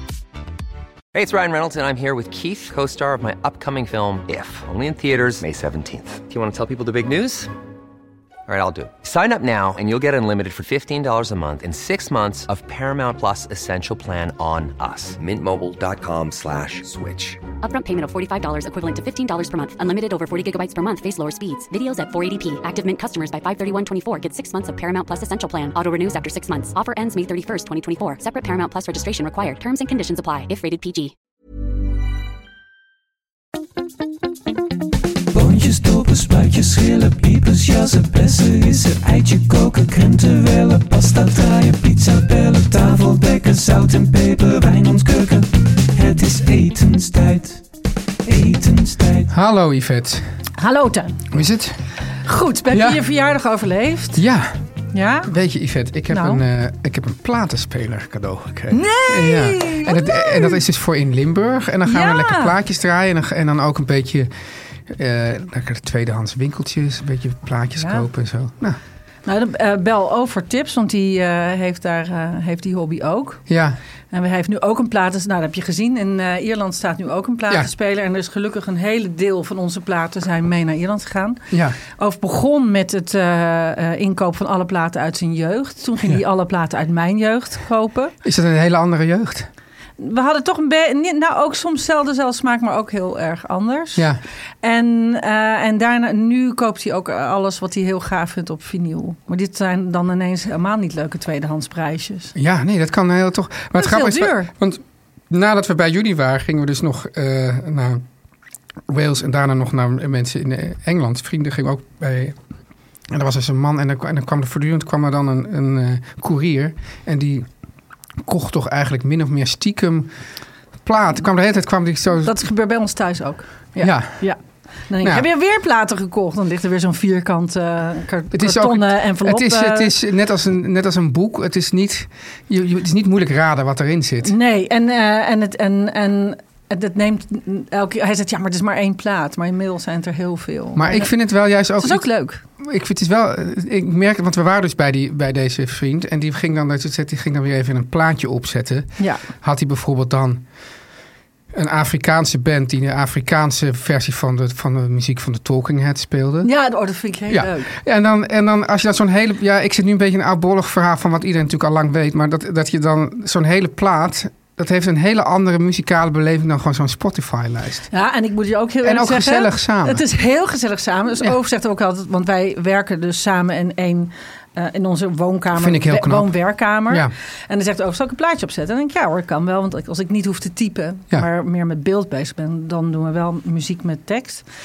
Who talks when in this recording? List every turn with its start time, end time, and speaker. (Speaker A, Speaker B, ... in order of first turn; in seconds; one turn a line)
Speaker A: 1.1-7.5
Speaker A: 8.5-17.4
Speaker B: 17.6-31.1
Speaker C: 35.3-47.6
Speaker C: 48.2-49.3
Speaker D: 49.3-50.2
Speaker E: 50.6-51.2
Speaker D: 51.3-51.8
Speaker E: 52.2-54.2
Speaker D: 52.7-53.0
Speaker D: 54.1-54.6
Speaker E: 54.9-55.3
Speaker D: 55.2-64.3
Speaker E: 56.1-56.4
Speaker E: 58.7-60.6
Speaker E: 61.9-62.5
Speaker D: 64.9-68.8
Speaker E: 67.8-68.1
Speaker E: 69.2-73.4
Speaker D: 73.5-73.8
Speaker E: 74.1-88.1
Speaker D: 81.5-81.8
Speaker D: 88.2-89.5
Speaker E: 90.0-94.1
Speaker E: 94.6-102.3
Speaker D: 102.3-108.0
Speaker E: 103.8-104.5
Speaker D: 108.9-112.4
Speaker D: 113.1-117.5
Speaker D: 118.2-120.1
Speaker D: 120.8-122.3
Speaker E: 122.2-129.9
Speaker D: 123.8-124.2
Speaker D: 125.0-125.2
Speaker D: 128.3-134.3
Speaker E: 134.2-141.1
Speaker D: 140.8-142.1
Speaker E: 141.8-142.4
Speaker D: 142.6-150.4
Speaker E: 149.0-149.2
Speaker D: 151.5-156.5
Speaker E: 156.4-157.7
Speaker D: 157.3-167.9
Speaker E: 167.9-184.4
Speaker D: 168.8-170.0
Speaker D: 175.6-176.3